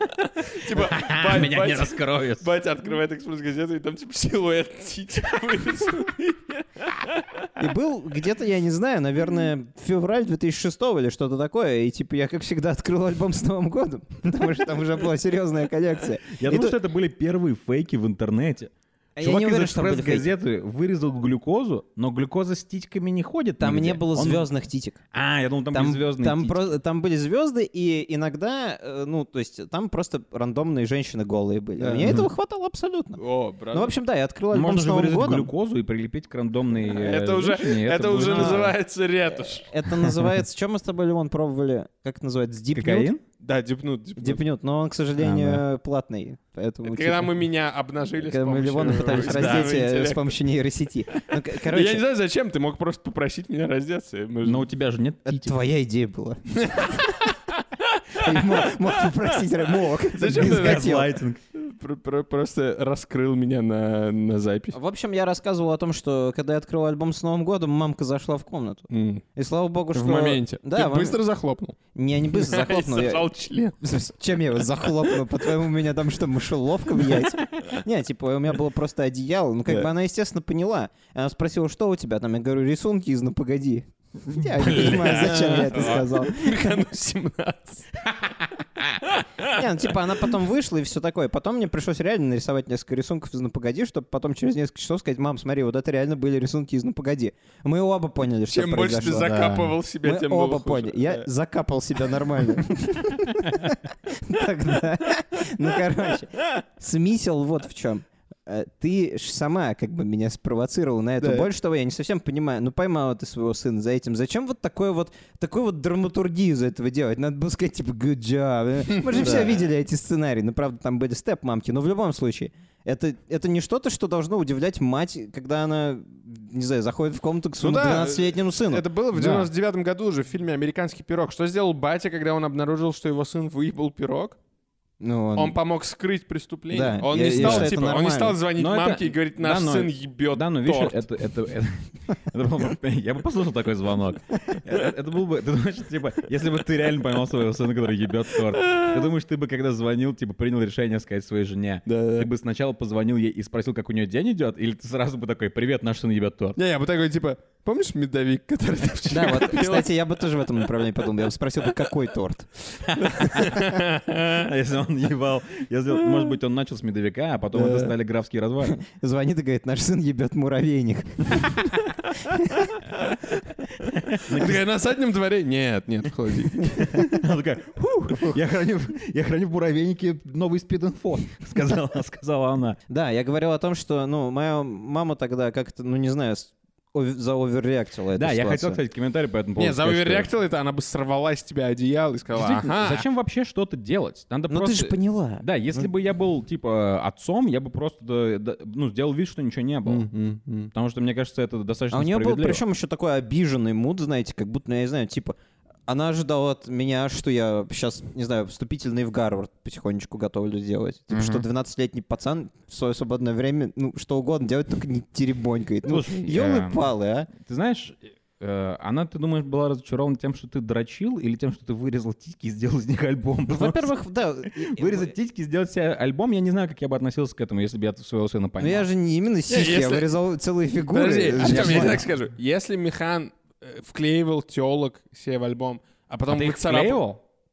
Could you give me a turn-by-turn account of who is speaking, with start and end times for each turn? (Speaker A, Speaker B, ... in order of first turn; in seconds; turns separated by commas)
Speaker A: 0.2-7.5, Speaker B: 0.7-2.5, Speaker C: 7.6-16.8, Speaker B: 16.3-24.5, Speaker C: 19.1-20.3, Speaker C: 23.6-25.0, Speaker B: 25.1-26.7, Speaker C: 25.7-33.2, Speaker A: 31.8-32.2, Speaker A: 33.2-33.9, Speaker C: 33.7-35.5, Speaker B: 34.5-38.7, Speaker A: 36.8-39.7, Speaker C: 38.3-38.7, Speaker C: 39.3-43.1, Speaker B: 42.7-43.2, Speaker A: 43.4-44.4, Speaker C: 44.2-47.3, Speaker B: 45.2-45.6, Speaker A: 46.8-50.4, Speaker C: 48.2-52.0, Speaker B: 49.0-49.7, Speaker A: 51.5-54.6, Speaker B: 54.4-55.5, Speaker C: 55.3-56.9, Speaker A: 56.6-57.3, Speaker A: 57.9-58.6, Speaker C: 58.1-61.1, Speaker A: 60.1-64.8, Speaker B: 60.3-61.4, Speaker C: 64.7-71.2, Speaker A: 68.9-69.2, Speaker A: 69.9-71.8, Speaker C: 71.9-86.6, Speaker A: 72.3-73.8, Speaker A: 74.8-75.1, Speaker B: 84.3-85.6, Speaker A: 84.7-88.1, Speaker A: 89.0-89.6, Speaker C: 89.4-99.4, Speaker A: 98.5-101.3, Speaker B: 99.1-99.7, Speaker C: 100.0-129.4, Speaker A: 111.2-111.5, Speaker A: 119.0-119.6, Speaker B: 119.2-119.6, Speaker A: 127.6-134.4, Speaker B: 129.2-129.4, Speaker C: 135.0-135.6, Speaker A: 135.3-141.1, Speaker C: 136.7-138.4, Speaker B: 137.2-137.8, Speaker B: 138.6-156.6, Speaker A: 148.5-149.0, Speaker A: 151.8-152.3, Speaker A: 156.6-159.9, Speaker C: 159.1-162.5, Speaker B: 162.9-168.8, Speaker A: 163.0-164.4, Speaker A: 166.1-166.3, Speaker A: 167.5-167.9, Speaker C: 168.7-171.6, Speaker C: 172.3-172.8, Speaker B: 173.9-174.6, Speaker A: 174.2-177.0, Speaker B: 176.8-182.8, Speaker C: 182.9-188.8, Speaker B: 188.2-190.3, Speaker A: 189.6-193.0, Speaker B: 192.3-200.1, Speaker C: 194.5-195.9, Speaker A: 199.8-200.7, Speaker B: 200.7-202.6, Speaker C: 201.9-205.3, Speaker C: 205.9-217.3, Speaker B: 211.1-211.4, Speaker B: 215.8-223.9, Speaker C: 223.5-225.1, Speaker B: 224.5-228.9, Speaker C: 228.6-232.1, Speaker A: 229.5-230.1, Speaker A: 230.8-237.0, Speaker B: 231.4-232.0, Speaker B: 236.3-237.2